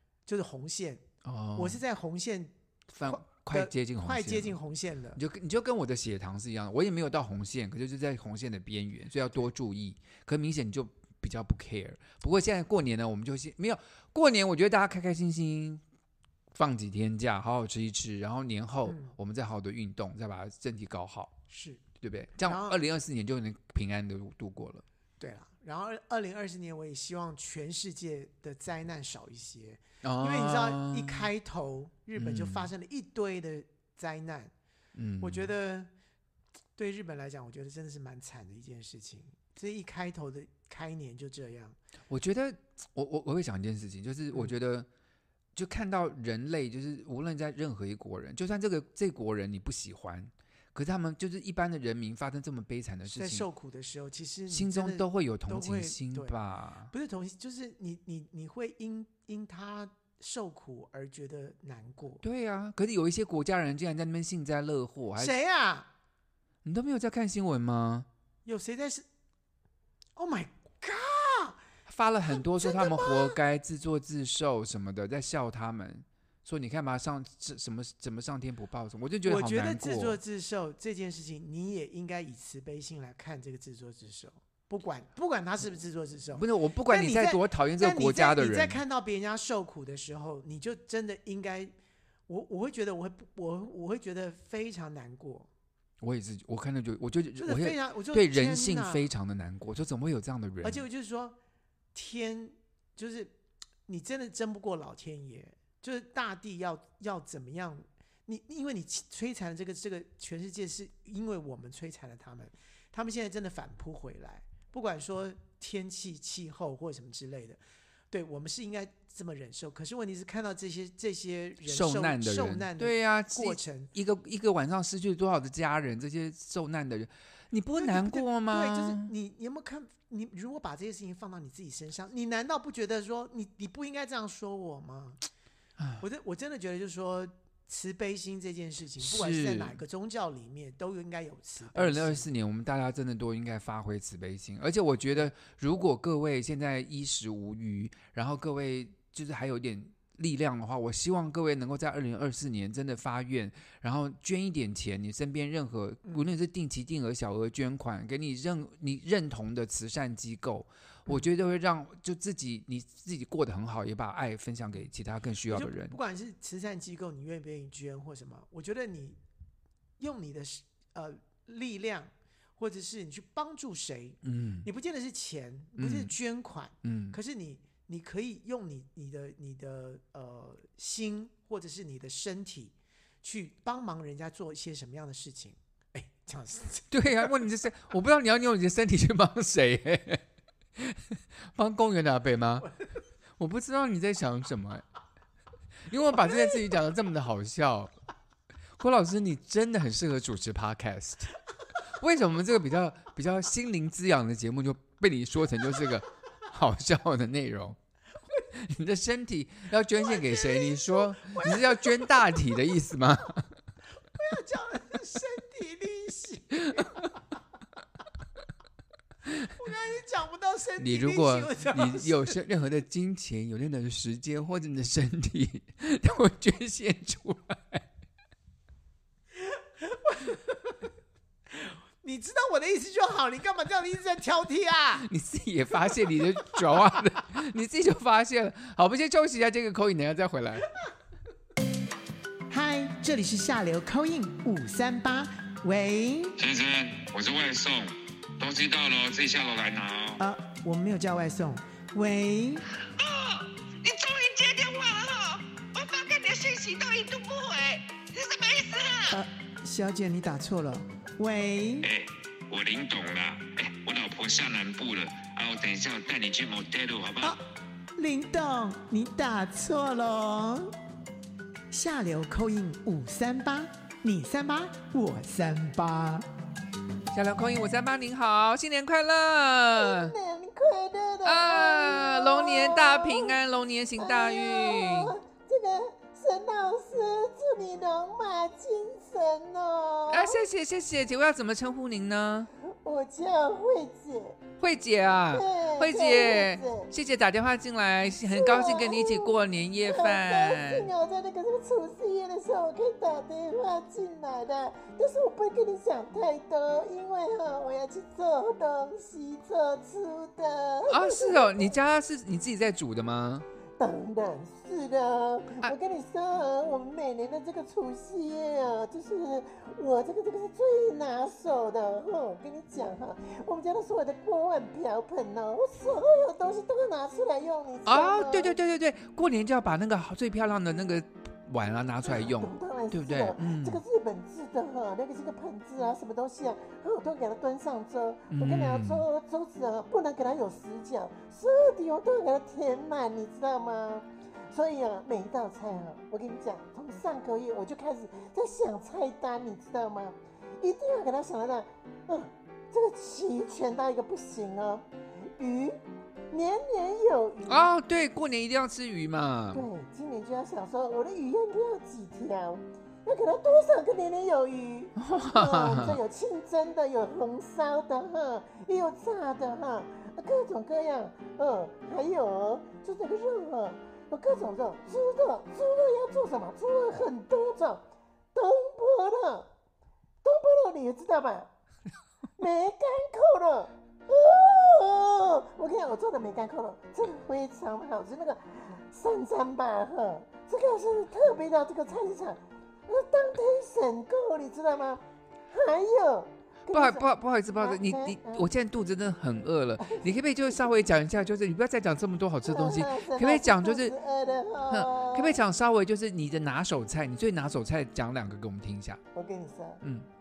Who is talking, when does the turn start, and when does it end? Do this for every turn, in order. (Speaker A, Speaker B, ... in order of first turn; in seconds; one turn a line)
Speaker A: 0.3-1.0
Speaker B: 1.2-1.8
Speaker A: 1.6-5.2
Speaker B: 2.9-4.6
Speaker B: 5.2-15.8
Speaker B: 16.5-21.4
Speaker A: 18.9-19.1
Speaker A: 21.5-21.8
Speaker B: 22.0-24.8
Speaker A: 22.4-22.8
Speaker A: 25.2-34.5
Speaker B: 30.0-31.3
Speaker B: 32.2-32.7
Speaker B: 35.0-35.5
Speaker A: 35.2-35.9
Speaker A: 36.8-41.8
Speaker B: 42.1-44.9
Speaker B: 45.5-53.5
Speaker A: 53.1-56.4
Speaker B: 54.5-56.9
Speaker A: 56.9-62.2
Speaker B: 62.2-65.3
Speaker A: 65.2-65.9
Speaker B: 66.6-68.1
Speaker A: 68.5-69.1
Speaker A: 70.2-71.6
Speaker B: 71.9-80.2
Speaker A: 72.4-73.4
Speaker A: 79.2-91.7
Speaker B: 86.3-88.8
Speaker A: 92.3-95.5
Speaker B: 96.0-100.8
Speaker A: 97.4-99.1
Speaker A: 100.6-101.4
Speaker A: 101.9-103.3
Speaker A: 103.9-117.6
Speaker A: 118.1-123.9
Speaker B: 121.7-129.1
Speaker A: 127.8-135.2
Speaker B: 135.8-136.0
Speaker A: 136.0-142.3
Speaker B: 139.0-139.8
Speaker B: 141.7-166.0
Speaker A: 165.5-169.2
Speaker A: 170.0-187.3
Speaker B: 174.2-174.7
Speaker B: 175.8-176.1
Speaker B: 176.8-177.2
Speaker B: 186.9-190.2
Speaker B: 190.8-192.7
Speaker B: 193.4-194.8
Speaker B: 195.9-197.9
Speaker B: 198.8-207.8
Speaker B: 208.5-213.5
Speaker A: 210.0-212.4
Speaker A: 214.1-217.2
Speaker A: 219.5-222.4
Speaker B: 220.8-227.9
Speaker A: 229.4-230.8
Speaker A: 231.5-235.1
Speaker B: 235.0-240.7
Speaker A: 242.5-246.4
Speaker C: 246.4-250.2
Speaker A: 250.2-252.6
Speaker D: 252.9-259.2
Speaker A: 259.1-261.9
Speaker C: 261.8-267.4
Speaker A: 268.0-270.8
Speaker A: 271.7-276.3
Speaker B: 277.1-280.2
Speaker E: 279.8-283.4
Speaker B: 281.2-285.2
Speaker E: 284.0-290.4
Speaker B: 290.1-292.5
Speaker E: 292.6-294.4
Speaker B: 294.6-300.9
Speaker E: 295.3-296.9
Speaker E: 298.3-299.3
Speaker E: 299.9-311.7
Speaker B: 310.9-313.5
Speaker E: 313.8-328.6
Speaker B: 327.9-333.8
Speaker E: 332.2-354.9
Speaker B: 338.3-339.1
Speaker E: 355.4-357.7
Speaker B: 357.5-359.7
Speaker E: 359.5-379.5
Speaker B: 365.0-366.0
Speaker E: 380.2-381.5
Speaker E: 382.4-398.4
Speaker B: 396.7-403.9
Speaker E: 399.8-400.1
Speaker E: 402.5-405.4
Speaker B: 404.7-409.0
Speaker E: 409.1-409.8
Speaker B: 409.8-410.1